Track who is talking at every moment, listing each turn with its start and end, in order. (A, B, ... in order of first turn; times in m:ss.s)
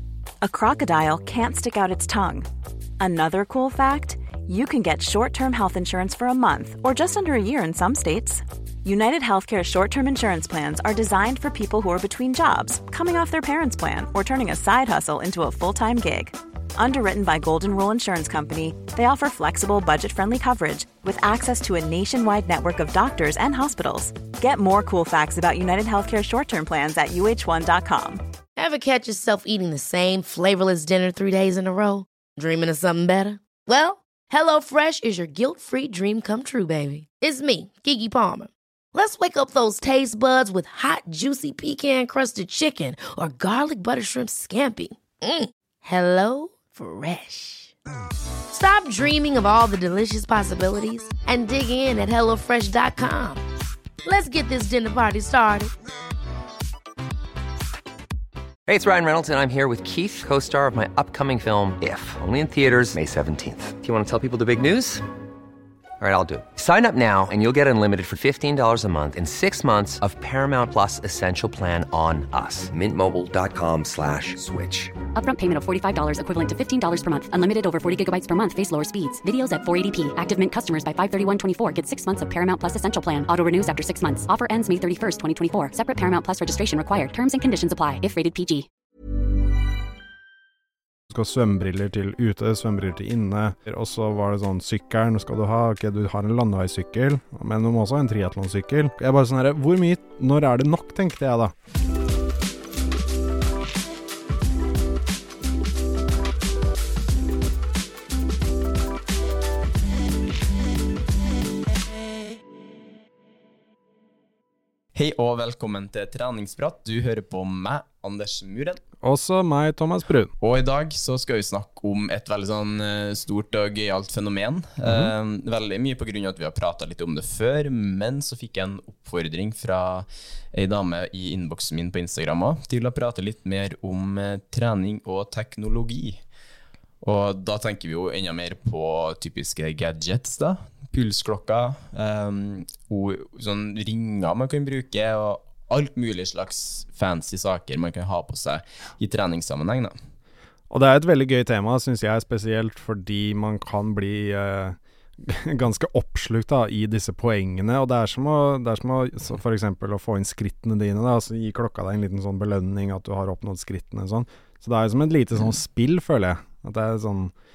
0:00.4-0:02.5 A
0:03.0-0:28.2 A
0:28.6-0:47.7 B
0:48.5-0:53.4 B
0:54.0-0:55.7 B
0:58.7-1:05.0 C
1:06.0-1:14.9 C
1:15.2-1:28.7 D
1:31.1-1:41.5 E
1:54.9-1:58.8 F
1:59.0-2:00.3 E
2:00.4-2:16.2 F
2:04.8-2:05.1 E
2:17.0-2:29.9 F
2:30.7-2:47.3 E